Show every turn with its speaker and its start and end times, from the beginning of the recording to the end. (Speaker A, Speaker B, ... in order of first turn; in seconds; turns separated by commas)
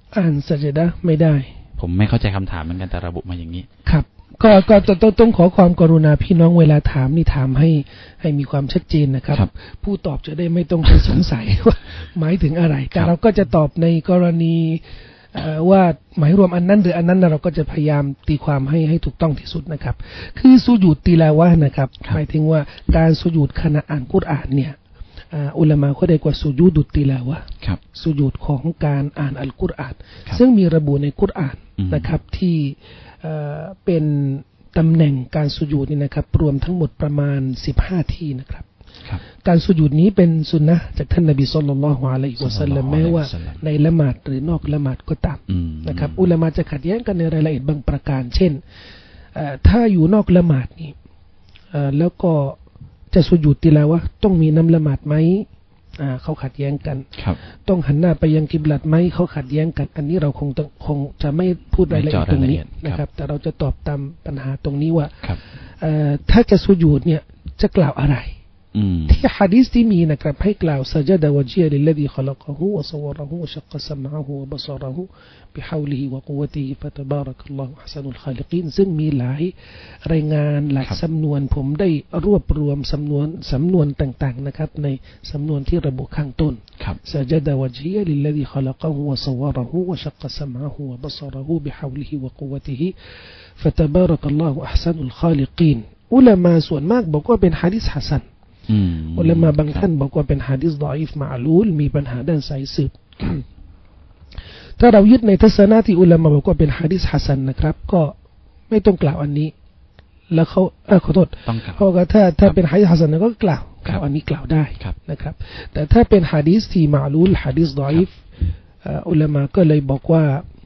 Speaker A: 0.1-1.5, Speaker B: 1.8-3.7, Speaker A: 3.9-24.8, Speaker A: 25.3-38.7, Speaker B: 31.8-32.1, Speaker A: 39.4-48.6, Speaker B: 42.4-43.6, Speaker B: 45.5-46.3, Speaker A: 49.4-51.0, Speaker A: 51.7-52.6, Speaker A: 53.1-55.5, Speaker A: 56.0-57.1, Speaker A: 57.6-65.2, Speaker B: 61.9-63.0, Speaker A: 65.8-68.3, Speaker B: 68.7-69.2, Speaker A: 69.1-79.5, Speaker A: 80.0-92.9, Speaker A: 93.6-98.2, Speaker B: 98.7-99.9, Speaker A: 99.2-103.4, Speaker A: 104.8-108.1, Speaker A: 108.7-109.5, Speaker A: 110.3-118.2, Speaker B: 111.5-111.8, Speaker A: 118.8-120.5